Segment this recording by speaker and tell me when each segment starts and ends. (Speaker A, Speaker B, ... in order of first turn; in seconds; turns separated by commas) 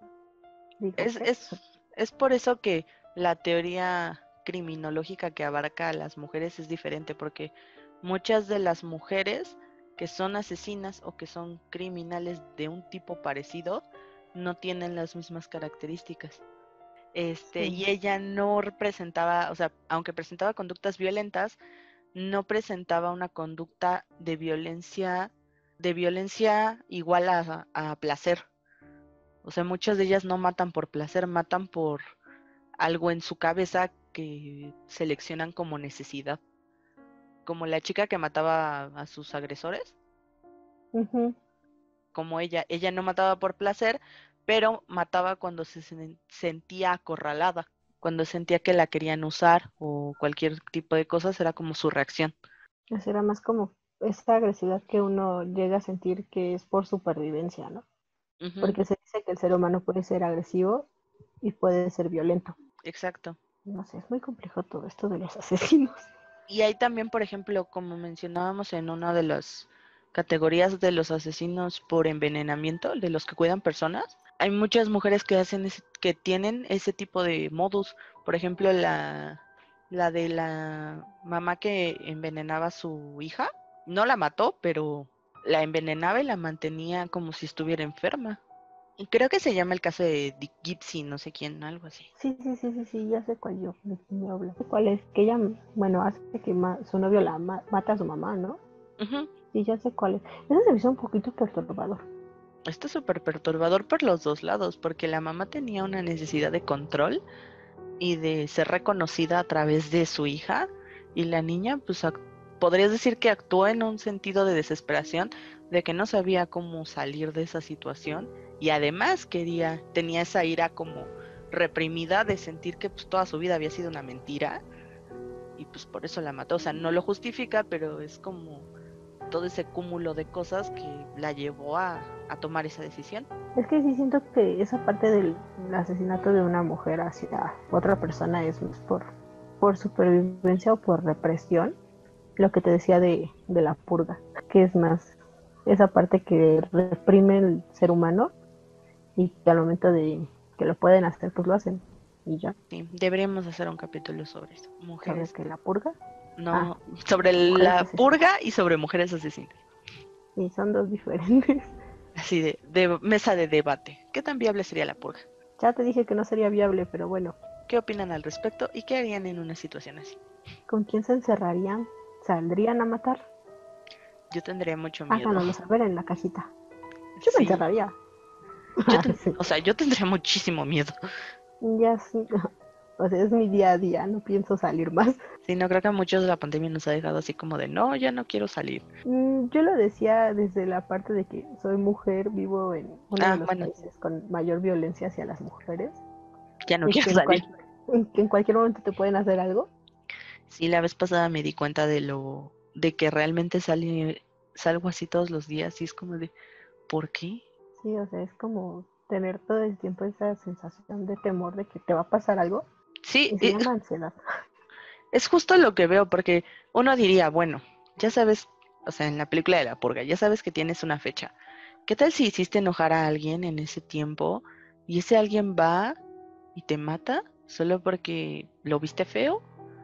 Speaker A: 0.8-1.3, Speaker B: 1.0-16.4, Speaker B: 17.1-21.6, Speaker A: 17.5-17.8, Speaker B: 22.1-28.4, Speaker B: 29.4-32.0, Speaker B: 32.8-36.4, Speaker B: 37.4-40.0, Speaker A: 40.9-41.4, Speaker B: 42.1-52.4, Speaker A: 52.9-57.8, Speaker B: 58.4-58.8, Speaker A: 58.6-60.9, Speaker A: 61.4-62.5, Speaker B: 62.8-63.4, Speaker A: 63.6-66.1, Speaker B: 66.5-88.4, Speaker B: 89.0-92.1, Speaker A: 92.2-98.6, Speaker B: 99.0-99.3, Speaker A: 99.5-102.0, Speaker B: 102.7-107.2, Speaker B: 108.0-124.6, Speaker B: 125.6-128.7, Speaker B: 129.3-133.3, Speaker A: 133.6-141.7, Speaker A: 142.4-145.1, Speaker A: 145.7-148.3, Speaker A: 149.2-152.5, Speaker B: 152.7-155.3, Speaker A: 155.0-156.0, Speaker B: 156.4-159.6, Speaker A: 157.5-158.1, Speaker A: 160.3-161.7, Speaker B: 162.2-165.3, Speaker A: 165.6-167.3, Speaker B: 167.7-170.2, Speaker A: 170.7-173.2, Speaker B: 174.3-175.5, Speaker A: 175.1-176.5, Speaker B: 177.2-177.6, Speaker A: 177.2-177.9, Speaker A: 178.8-179.4, Speaker B: 178.9-180.9, Speaker A: 181.6-185.2, Speaker B: 185.4-188.8, Speaker A: 189.0-196.0, Speaker B: 193.2-193.8, Speaker B: 196.7-197.4, Speaker A: 196.8-199.7, Speaker B: 200.5-206.3, Speaker B: 206.9-207.4, Speaker A: 207.8-212.6, Speaker B: 213.1-213.7, Speaker A: 213.3-214.1, Speaker B: 215.1-221.3, Speaker B: 221.8-226.0, Speaker B: 226.5-229.4